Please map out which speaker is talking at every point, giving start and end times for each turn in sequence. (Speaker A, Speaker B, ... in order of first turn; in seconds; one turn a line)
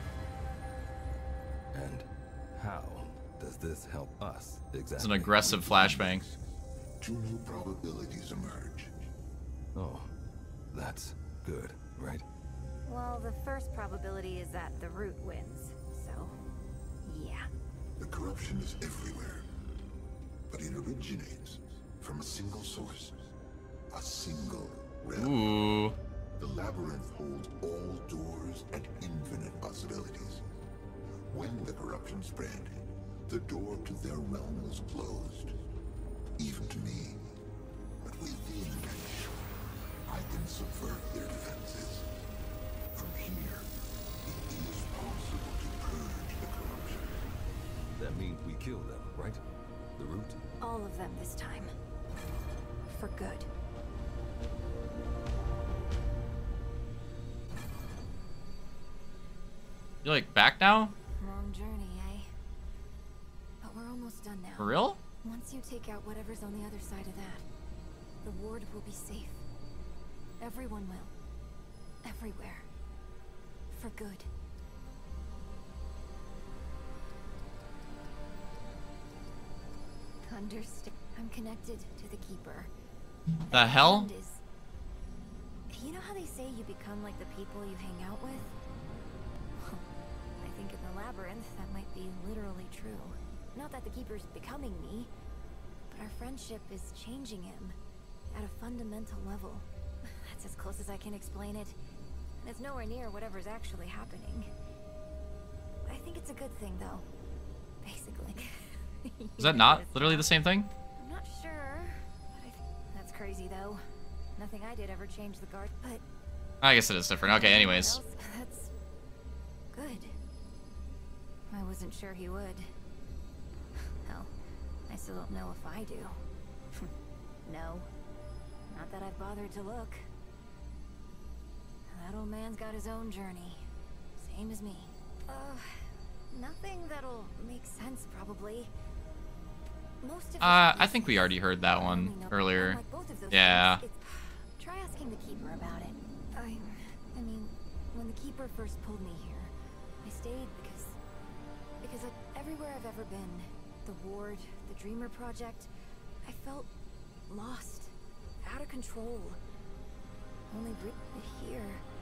Speaker A: 1.7-6.4
Speaker B: 5.0-6.3
Speaker C: 7.0-8.9
Speaker A: 9.7-10.1
Speaker A: 10.7-12.2
Speaker D: 12.8-16.4
Speaker D: 17.1-17.5
Speaker C: 18.0-19.5
Speaker C: 20.5-23.2
Speaker C: 23.9-25.7
Speaker B: 25.2-26.0
Speaker C: 26.4-30.4
Speaker C: 31.3-35.6
Speaker C: 36.4-37.2
Speaker C: 38.0-39.4
Speaker C: 40.1-42.1
Speaker C: 42.9-43.7
Speaker C: 44.3-47.2
Speaker A: 47.9-49.4
Speaker A: 50.0-50.4
Speaker D: 50.6-51.7
Speaker D: 52.9-53.5
Speaker B: 60.0-60.9
Speaker D: 61.2-62.3
Speaker D: 63.6-67.5
Speaker B: 64.6-65.0
Speaker D: 68.2-69.5
Speaker D: 70.4-71.1
Speaker D: 72.0-72.7
Speaker D: 73.7-74.3
Speaker D: 80.2-82.7
Speaker D: 83.5-84.4
Speaker B: 83.5-84.1
Speaker D: 85.7-88.5
Speaker D: 89.6-89.9
Speaker D: 90.4-95.1
Speaker D: 95.9-97.8
Speaker D: 98.3-101.8
Speaker D: 102.4-104.5
Speaker D: 105.9-107.1
Speaker D: 107.8-110.4
Speaker B: 109.4-110.7
Speaker D: 111.0-113.8
Speaker D: 114.4-116.0
Speaker B: 116.6-118.0
Speaker D: 117.2-118.7
Speaker D: 119.7-120.1
Speaker D: 121.5-122.7
Speaker D: 124.0-124.3
Speaker D: 124.9-126.2
Speaker D: 127.5-127.9
Speaker D: 128.7-130.0
Speaker D: 131.9-133.6
Speaker D: 134.2-138.7
Speaker D: 140.0-151.0
Speaker B: 140.4-143.8
Speaker D: 151.8-155.7
Speaker D: 156.2-156.7
Speaker D: 157.3-159.4
Speaker D: 160.5-161.8